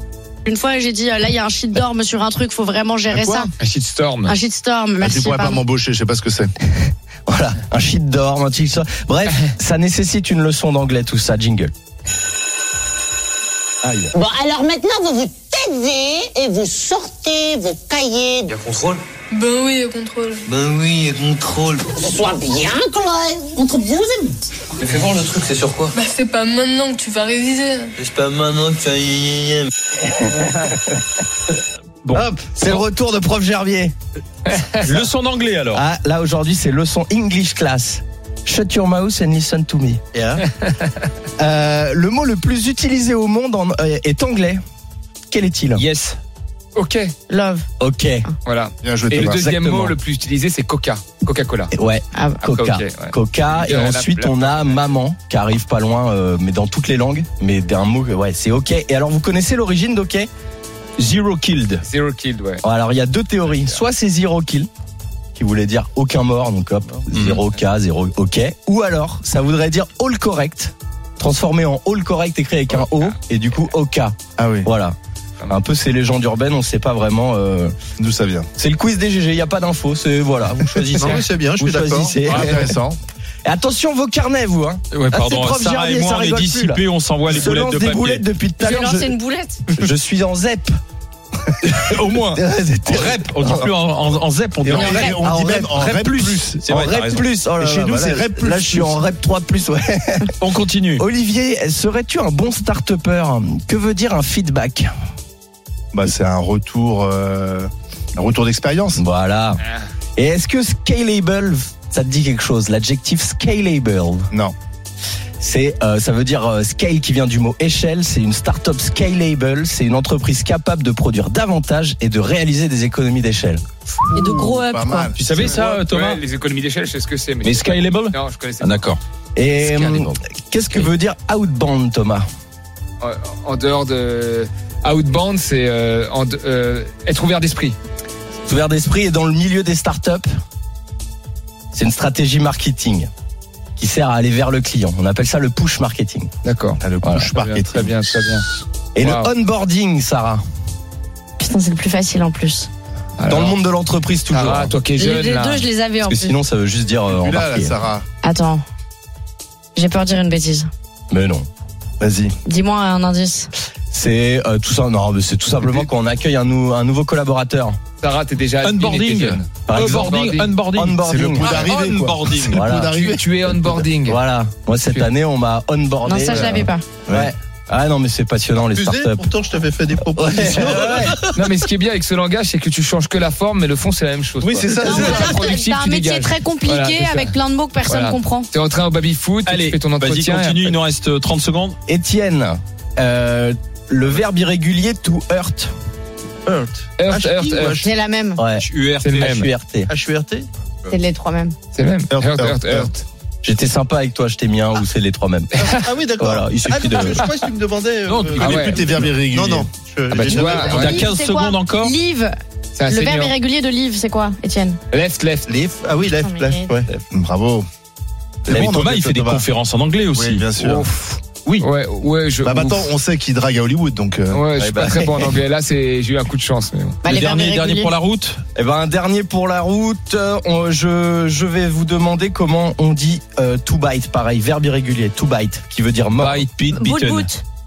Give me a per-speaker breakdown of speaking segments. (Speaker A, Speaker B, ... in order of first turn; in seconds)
Speaker A: 0.4-3.5, 4.3-5.6, 47.3-47.6, 52.1-52.4, 88.6-89.6, 94.8-95.1, 124.1-125.1, 151.4-152.7, 155.0-156.3, 158.2-158.6, 159.7-160.7, 162.4-163.5, 176.0-176.8, 184.8-188.5, 197.8-198.4, 200.9-201.6, 210.7-212.3, 212.9-214.8, 216.2-216.7, 227.0-227.9, 236.7-237.4
Speaker B: 3.1-3.4, 5.0-6.5, 48.8-49.4, 74.4-74.7, 78.0-78.5, 82.2-83.0, 94.6-96.7, 97.6-99.0, 105.9-109.0, 124.1-125.3, 146.8-147.9, 157.1-158.0, 162.0-162.3, 171.0-173.9, 184.4-185.3, 202.1-202.9, 208.5-210.5, 217.1-217.6, 218.4-219.4, 220.1-220.9, 222.4-224.5
Speaker C: 3.5-4.3, 34.5-34.9, 40.4-41.0, 46.8-47.1, 48.4-51.7, 52.5-54.8, 61.8-62.6, 125.3-128.9, 133.0-137.8, 146.4-148.4, 149.0-149.3, 153.2-153.6, 154.3-155.7, 168.0-170.5, 173.0-174.2, 181.3-187.3, 187.9-190.8, 197.0-197.8, 199.0-199.5, 201.7-203.0, 205.6-205.9, 208.4-208.8, 210.1-211.0, 212.8-213.3, 214.9-215.5, 220.6-222.9, 224.3-227.0
Speaker D: 7.3-11.7, 13.8-14.1, 30.1-30.9, 32.1-33.9, 35.7-40.0, 41.4-44.6, 45.3-45.8, 47.8-48.2, 49.2-50.0, 51.7-60.3, 62.6-64.7, 65.3-74.9, 75.5-77.7, 78.5-82.8, 83.4-89.1, 89.8-90.7, 91.7-93.7, 95.0-100.3, 101.0-104.9, 109.0-109.6, 110.2-114.3, 115.4-123.6, 129.3-132.2, 138.4-140.3, 141.7-143.1, 143.8-146.3, 147.0-147.3, 148.9-150.4, 153.3-154.7, 156.0-157.7, 161.1-161.5, 163.9-167.8, 169.7-170.2, 170.7-171.7, 172.5-172.9, 174.0-179.3, 180.1-181.2, 191.9-195.7, 198.4-198.7, 199.2-199.9, 203.4-207.3, 218.5-218.7, 224.5-225.3, 228.5-236.4
Speaker E: 14.1-18.6, 21.9-24.3
Speaker F: 18.6-19.0, 20.5-21.9, 24.9-25.9, 28.0-29.7
Speaker G: 19.3-20.4, 25.9-27.9
Speaker H: 32.0-32.8, 34.8-35.8, 45.7-46.2, 61.0-61.8, 67.1-67.4, 84.9-88.2, 92.8-97.3, 100.4-101.0, 125.2-126.2, 127.4-129.0, 168.6-172.7, 189.4-191.8, 198.6-199.4, 208.1-209.1, 210.7-212.0, 218.5-220.5, 227.0-228.4, 236.2-237.3
Speaker I: 40.1-40.4, 80.9-82.3, 178.7-181.5, 196.4-197.9, 199.9-200.5, 205.6-211.0, 215.5-217.0